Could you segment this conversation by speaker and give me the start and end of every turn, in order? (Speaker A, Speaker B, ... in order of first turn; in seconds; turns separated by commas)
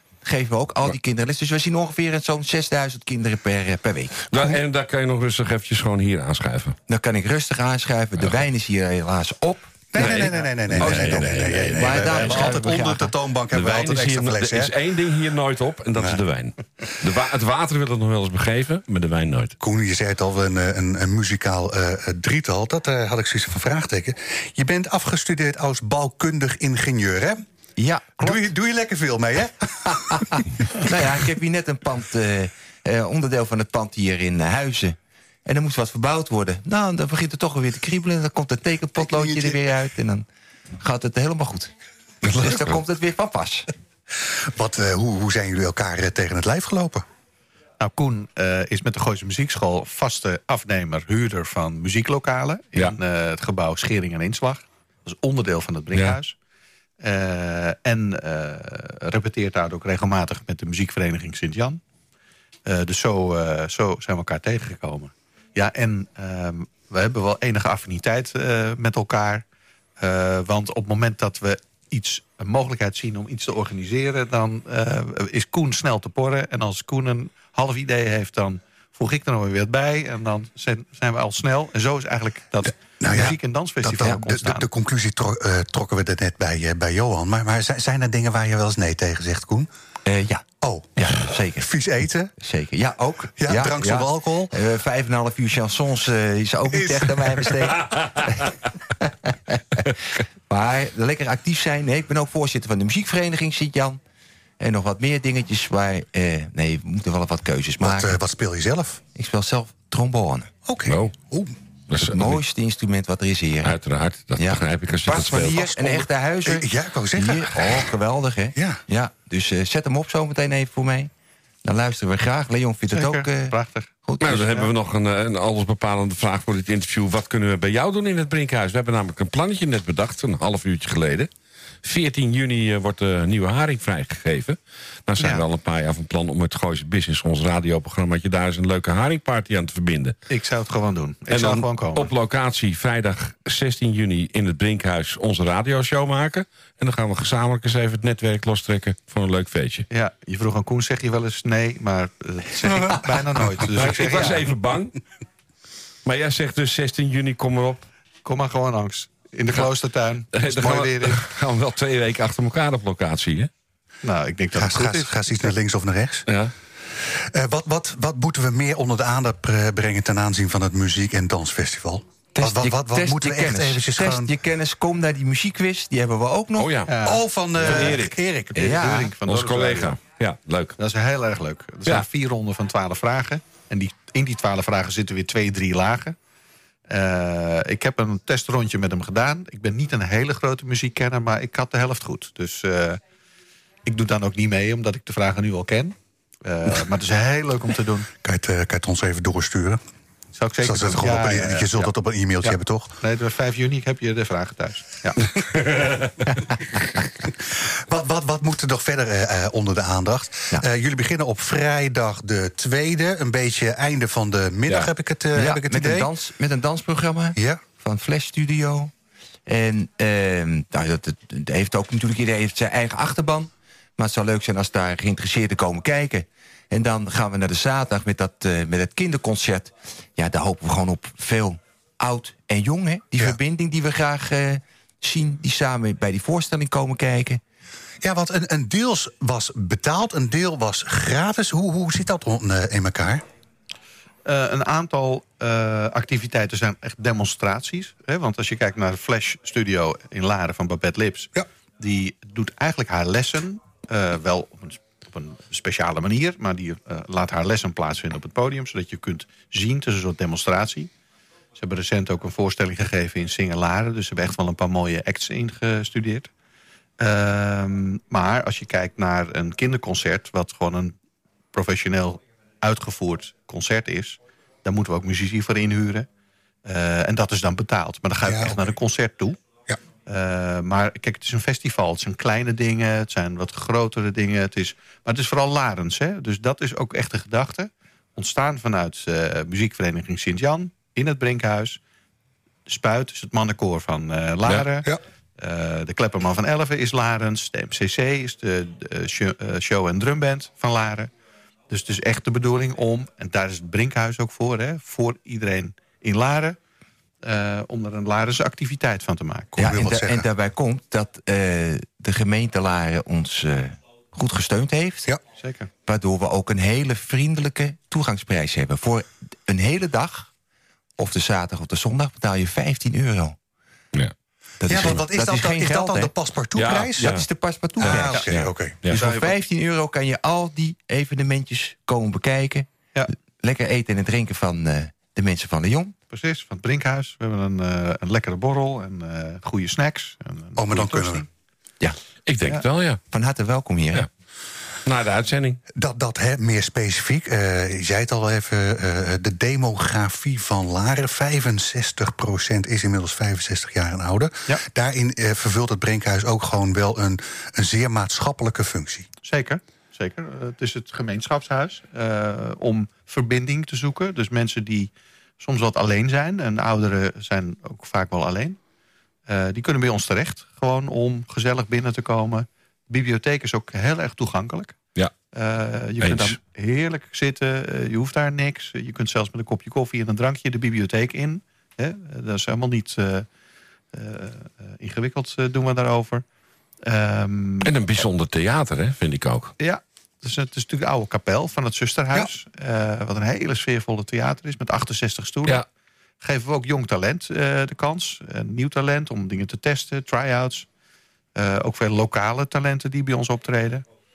Speaker A: 0.2-4.3, Speaker B: 4.3-6.8, Speaker A: 6.9-11.2, Speaker C: 9.9-14.7, Speaker B: 10.0-12.5, Speaker A: 11.7-13.1, Speaker B: 13.5-19.6, Speaker C: 19.6-27.4, Speaker A: 27.8-28.5, Speaker C: 28.2-30.9, Speaker A: 30.8-40.3, Speaker C: 39.0-39.6, Speaker A: 40.8-41.7, Speaker B: 42.2-42.8, Speaker A: 42.3-43.7, Speaker C: 44.2-47.1, Speaker D: 47.8-56.4, Speaker B: 55.9-56.2, Speaker D: 57.0-61.8, Speaker D: 62.7-69.5, Speaker D: 70.0-84.7, Speaker C: 83.0-89.7, Speaker A: 90.0-91.7, Speaker C: 90.6-92.3, Speaker A: 92.4-99.9, Speaker C: 93.4-94.5, Speaker C: 96.8-97.1, Speaker B: 97.8-98.2, Speaker A: 100.5-104.0, Speaker A: 104.6-108.2, Speaker C: 107.8-109.0, Speaker A: 109.2-110.5, Speaker C: 110.7-111.5, Speaker B: 110.9-111.2, Speaker B: 111.9-112.4, Speaker A: 112.0-113.8, Speaker B: 113.6-115.6, Speaker A: 114.4-121.1, Speaker C: 115.2-118.0, Speaker C: 118.5-118.8, Speaker A: 121.6-124.5, Speaker D: 122.9-124.7, Speaker B: 124.2-131.3, Speaker B: 131.8-140.2, Speaker D: 135.2-135.4, Speaker D: 140.3-142.1, Speaker B: 141.3-149.9, Speaker D: 149.9-154.5, Speaker B: 153.7-155.0, Speaker B: 156.1-157.9, Speaker D: 158.2-161.3, Speaker B: 160.3-163.5, Speaker D: 164.0-165.5, Speaker C: 164.5-166.3, Speaker B: 166.3-166.5, Speaker C: 167.0-174.3, Speaker A: 172.3-176.8, Speaker B: 176.6-176.9, Speaker D: 176.9-180.0, Speaker C: 177.0-178.8, Speaker B: 177.6-178.1, Speaker A: 178.6-179.1, Speaker B: 179.2-180.8, Speaker D: 180.8-186.2, Speaker D: 186.9-193.0, Speaker D: 193.9-198.1, Speaker C: 198.2-199.8, Speaker D: 200.3-205.2, Speaker C: 200.6-203.0, Speaker B: 205.4-206.1, Speaker C: 207.5-216.1, Speaker A: 215.3-218.9, Speaker C: 217.3-217.6, Speaker A: 219.5-237.4, Speaker C: 238.0-243.2, Speaker D: 244.2-260.9, Speaker D: 261.6-266.3, Speaker D: 267.0-271.0, Speaker D: 271.5-276.1, Speaker D: 276.6-279.4, Speaker C: 278.2-278.8, Speaker D: 280.1-291.8, Speaker D: 292.7-294.9, Speaker D: 295.4-301.1, Speaker D: 301.7-306.6, Speaker D: 307.2-309.6, Speaker C: 309.6-310.3, Speaker A: 309.6-315.1, Speaker D: 315.4-315.7, Speaker A: 315.8-320.3, Speaker A: 321.0-323.4, Speaker A: 324.6-326.1, Speaker C: 324.7-327.2, Speaker B: 326.6-327.2, Speaker A: 327.0-328.3, Speaker C: 327.8-328.9, Speaker D: 327.9-328.3, Speaker B: 328.3-329.0, Speaker D: 328.9-329.3, Speaker A: 329.0-332.7, Speaker A: 333.4-336.0, Speaker D: 336.1-341.3, Speaker C: 340.6-341.3, Speaker B: 342.3-343.0, Speaker A: 343.1-344.1, Speaker B: 344.9-345.6, Speaker C: 345.8-359.1, Speaker D: 359.2-368.6, Speaker D: 369.3-374.8, Speaker D: 375.3-383.3, Speaker B: 376.0-376.4, Speaker D: 383.9-386.2, Speaker D: 386.8-387.7, Speaker B: 387.6-389.5, Speaker D: 389.6-395.6, Speaker D: 396.2-400.7, Speaker D: 401.4-403.9